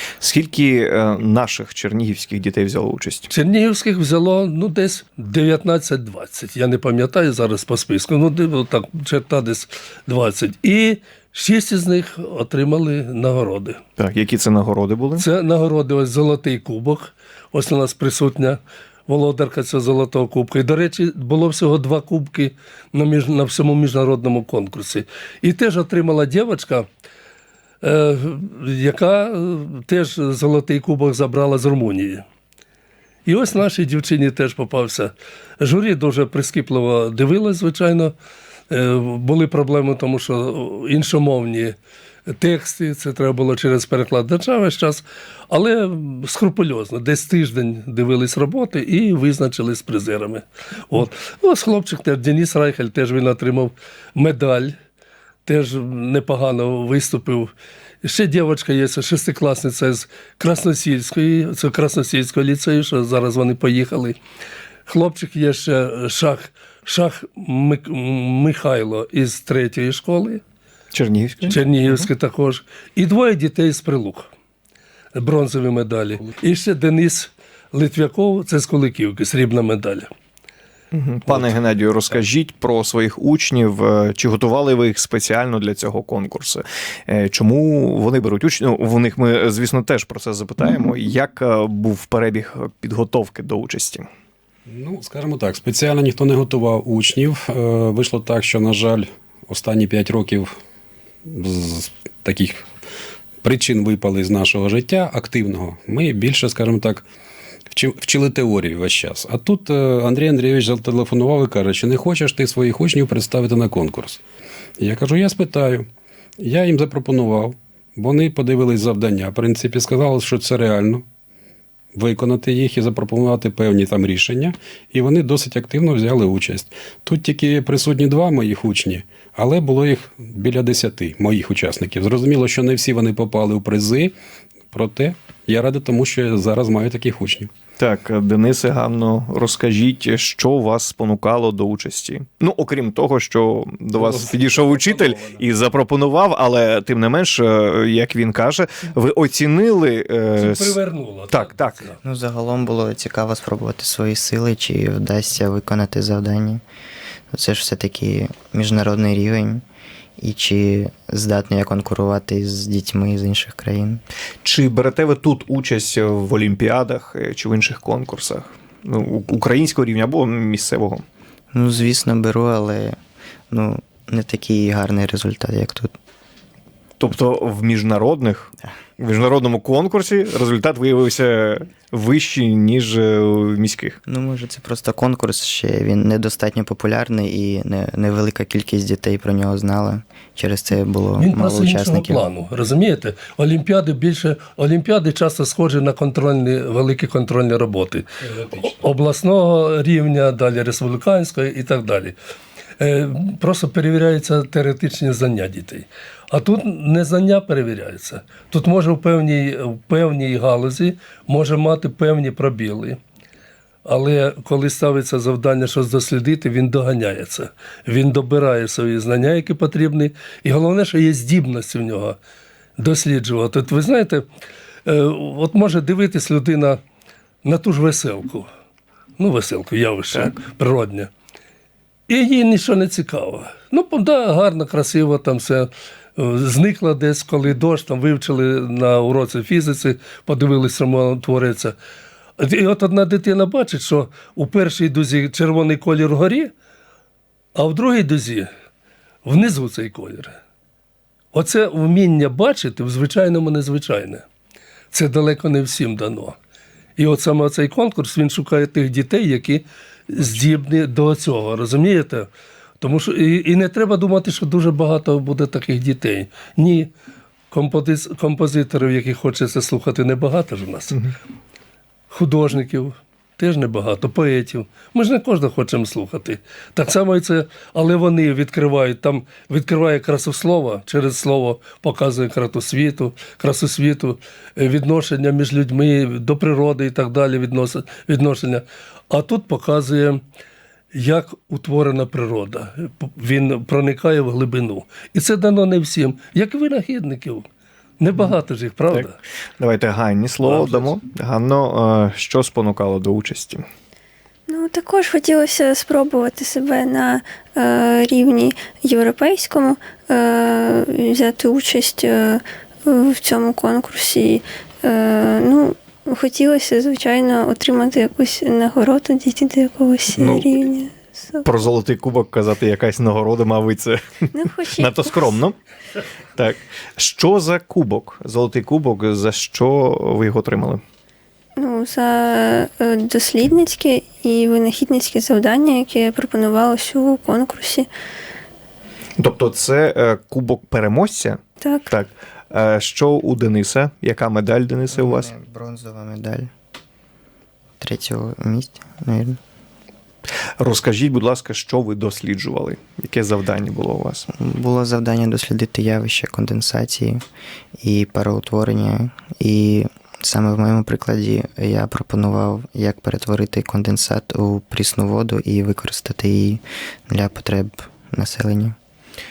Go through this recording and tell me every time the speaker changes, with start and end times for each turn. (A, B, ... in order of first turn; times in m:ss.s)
0:00.2-0:03.3 A
0:03.3-0:13.8 B
0:14.0-0:15.2 A
0:15.2-0:26.9 B
0:27.8-0:32.2 B
0:33.3-0:38.1 B
0:38.7-0:41.8 B
0:42.3-0:54.8 B
0:55.4-0:57.5 B
0:58.0-1:04.2 B
1:04.9-1:10.4 B
1:10.9-1:12.1 A
1:11.5-1:14.3 B
1:15.2-1:20.1 B
1:20.9-1:34.1 A
1:34.7-1:40.6 C
1:41.3-1:42.7 C
1:43.4-1:47.0 C
1:47.7-1:54.2 C
1:54.8-1:55.9 C
1:56.4-2:01.0 C
2:01.9-2:14.1 C
2:14.7-2:17.5 C
2:17.8-2:30.8 A
2:24.0-2:25.4 C
2:30.4-2:32.0 B
2:31.3-2:31.8 A
2:32.0-2:36.6 D
2:37.3-2:39.6 D
2:40.2-2:44.0 D
2:44.4-2:51.0 A
2:51.5-2:53.0 D
2:53.5-2:55.9 D
2:57.0-3:04.0 A
3:04.1-3:12.2 D
3:11.2-3:22.1 B
3:18.2-3:18.8 C
3:22.8-3:33.0 B
3:33.8-3:42.2 B
3:42.8-3:44.2 B
3:44.9-3:46.8 B
3:47.4-3:48.5 B
3:49.2-3:51.1 B
3:52.1-4:01.8 B
4:02.4-4:06.5 B
4:07.6-4:08.5 B
4:09.2-4:10.4 B
4:11.3-4:14.2 B
4:14.9-4:16.4 B
4:17.0-4:22.3 B
4:22.8-4:26.9 B
4:27.5-4:31.0 B
4:32.1-4:50.2 B
4:50.9-4:57.5 B
4:58.0-4:59.2 B
4:58.9-5:03.6 A
5:00.4-5:00.9 B
5:04.5-5:21.5 E
5:20.2-5:20.4 A
5:21.4-5:25.6 A
5:24.3-5:25.4 E
5:26.4-5:30.8 A
5:31.6-5:37.9 E
5:39.2-5:45.3 A
5:41.6-5:41.9 E
5:44.9-5:46.5 D
5:47.8-5:49.4 D
5:50.6-5:54.3 A
5:54.3-5:57.2 D
5:57.8-6:08.8 D